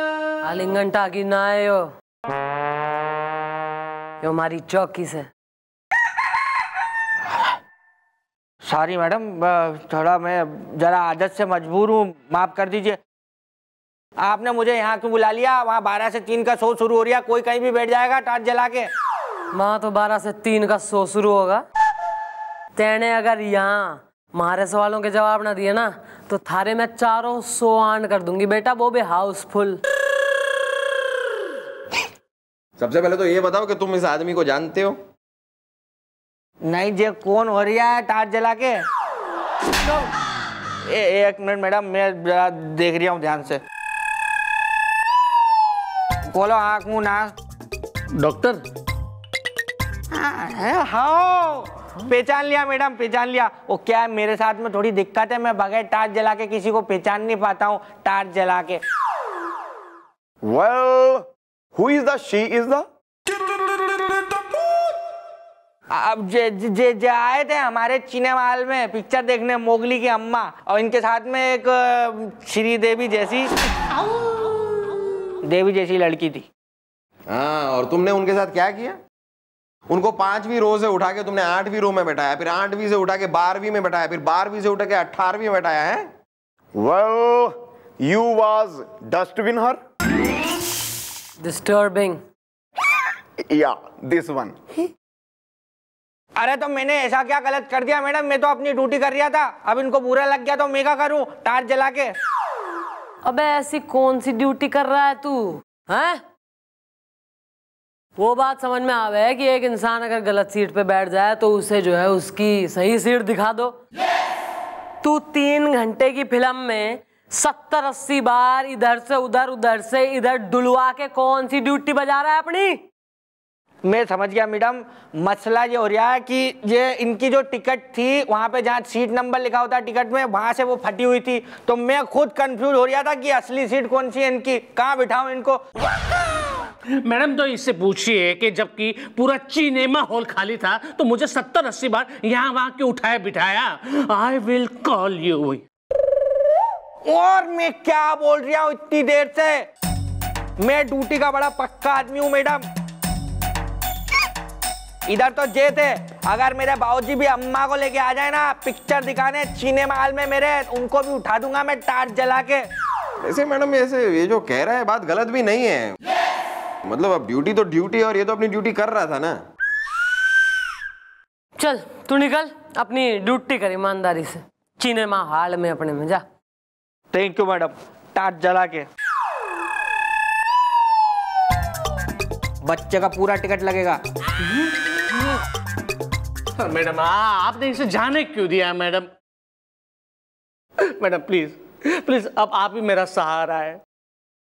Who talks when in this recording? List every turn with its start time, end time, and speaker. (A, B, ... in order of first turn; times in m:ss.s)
0:00.4-0:01.9 A
0:04.2-0:05.3 A
0:08.6-0:13.0 B
0:14.2-0:18.9 B
0:19.5-0:21.6 A
0:22.8-0:29.8 A
0:32.8-0:35.0 C
0:36.6-0:38.8 B
0:40.8-0:43.6 B
0:46.3-0:47.4 B
0:48.2-0:48.6 D
0:50.1-0:58.8 B
1:00.4-1:02.8 E
1:05.9-1:13.5 B
1:15.4-1:16.5 B
1:17.3-1:19.0 C
1:19.9-1:26.0 C
1:26.8-1:29.8 E
1:31.4-1:32.2 A
1:33.4-1:34.8 E
1:36.4-1:42.1 B
1:43.2-1:46.2 A
1:48.2-1:53.8 A
1:55.0-2:02.8 A
2:03.8-2:15.6 B
2:17.0-2:25.6 D
2:27.0-2:29.7 B
2:30.6-2:32.6 B
2:35.1-2:42.6 B
2:43.2-2:46.0 C
2:46.9-2:49.4 C
2:51.6-2:56.2 A
2:57.1-2:58.9 B
3:02.6-3:04.0 B
3:06.6-3:09.1 D
3:10.8-3:13.8 D